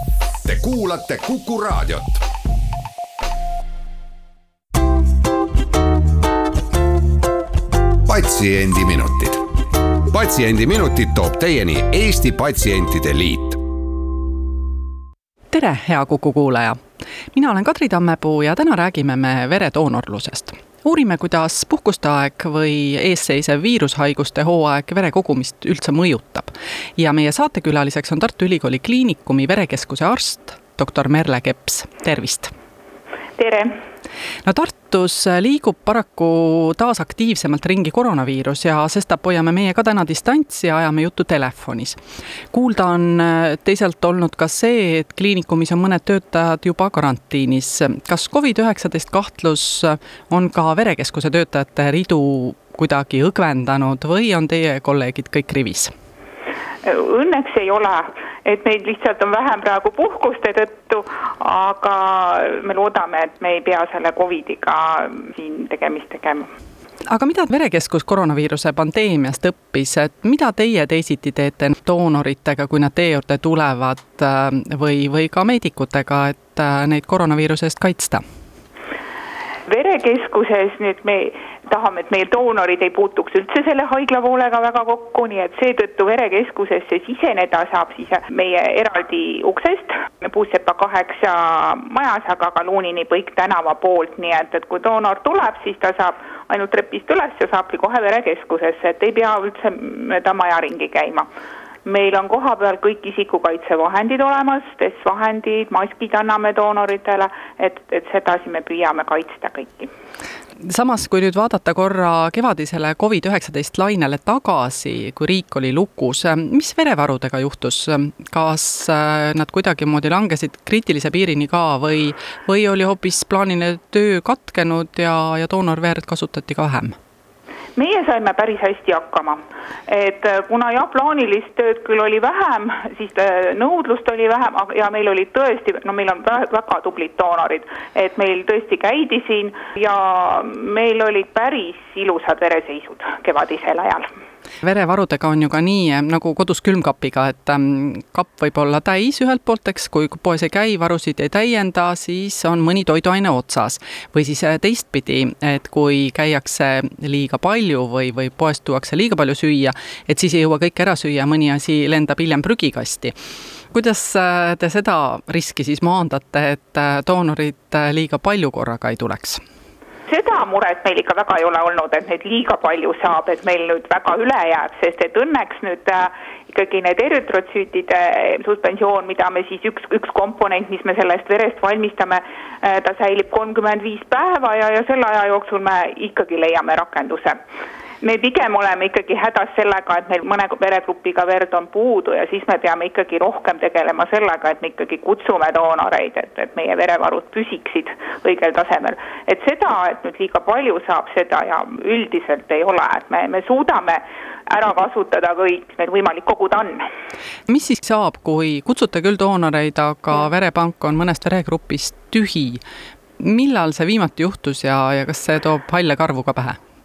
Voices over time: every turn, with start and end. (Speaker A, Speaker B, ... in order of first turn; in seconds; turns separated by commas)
Speaker A: 0.5-2.2, Speaker A: 8.1-9.4, Speaker A: 10.1-13.6, Speaker B: 15.5-16.8, Speaker B: 17.3-32.5, Speaker C: 33.4-33.8, Speaker B: 34.5-42.0, Speaker B: 42.5-55.9, Speaker C: 56.8-66.5, Speaker B: 67.1-78.2, Speaker C: 79.7-101.3, Speaker C: 101.8-109.9, Speaker B: 110.7-127.0, Speaker C: 127.8-144.1, Speaker B: 144.6-163.1, Speaker B: 163.7-169.4, Speaker C: 170.1-187.4, Speaker C: 188.0-206.9, Speaker B: 207.5-212.6, Speaker B: 213.2-216.6